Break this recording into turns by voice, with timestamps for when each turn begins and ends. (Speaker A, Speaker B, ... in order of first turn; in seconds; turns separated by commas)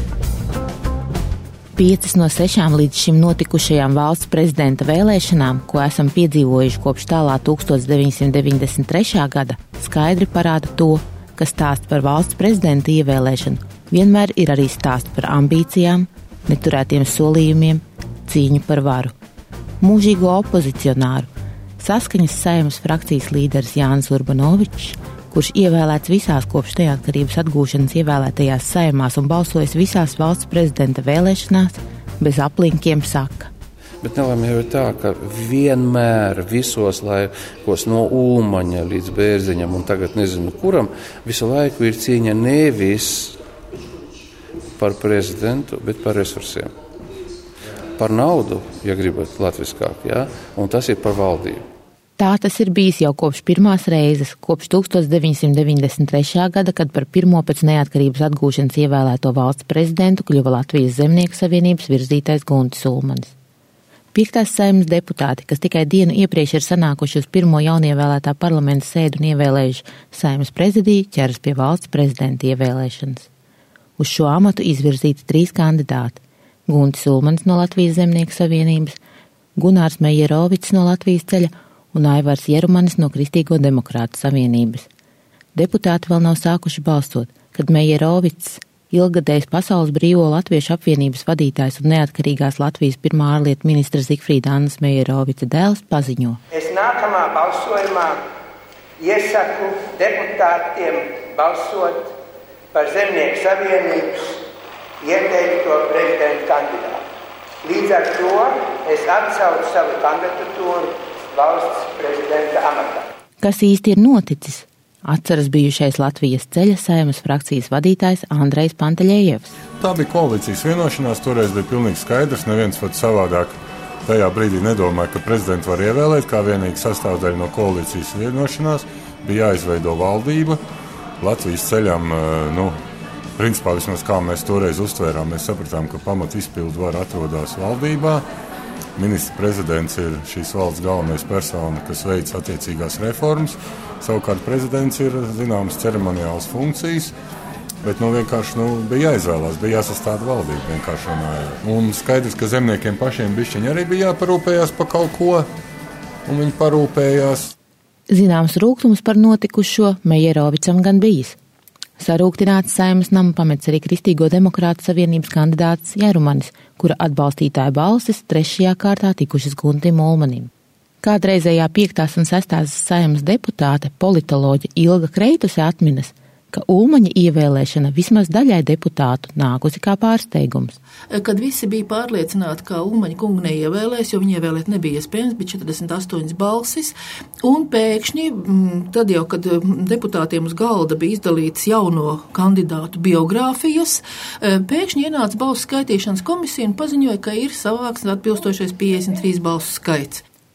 Speaker A: 1.8-19.1, Speaker A: 19.8-33.5, Speaker B: 34.0-43.4, Speaker B: 44.8-46.7, Speaker B: 48.0-51.6, Speaker A: 52.2-63.3, Speaker A: 64.1-73.3, Speaker A: 74.0-79.0, Speaker A: 79.6-84.9, Speaker A: 85.6-96.4, Speaker C: 96.5-98.2, Speaker C: 99.0-102.1, Speaker C: 102.7-104.4, Speaker C: 105.0-107.0, Speaker C: 107.6-113.0, Speaker A: 113.4-119.5, Speaker D: 119.8-130.6, Speaker D: 131.2-132.8, Speaker D: 133.4-138.2, Speaker D: 139.0-147.1, Speaker D: 147.8-155.5, Speaker D: 156.3-157.5, Speaker A: 158.1-161.4, Speaker A: 162.0-170.5, Speaker A: 171.0-180.8, Speaker E: 181.1-200.2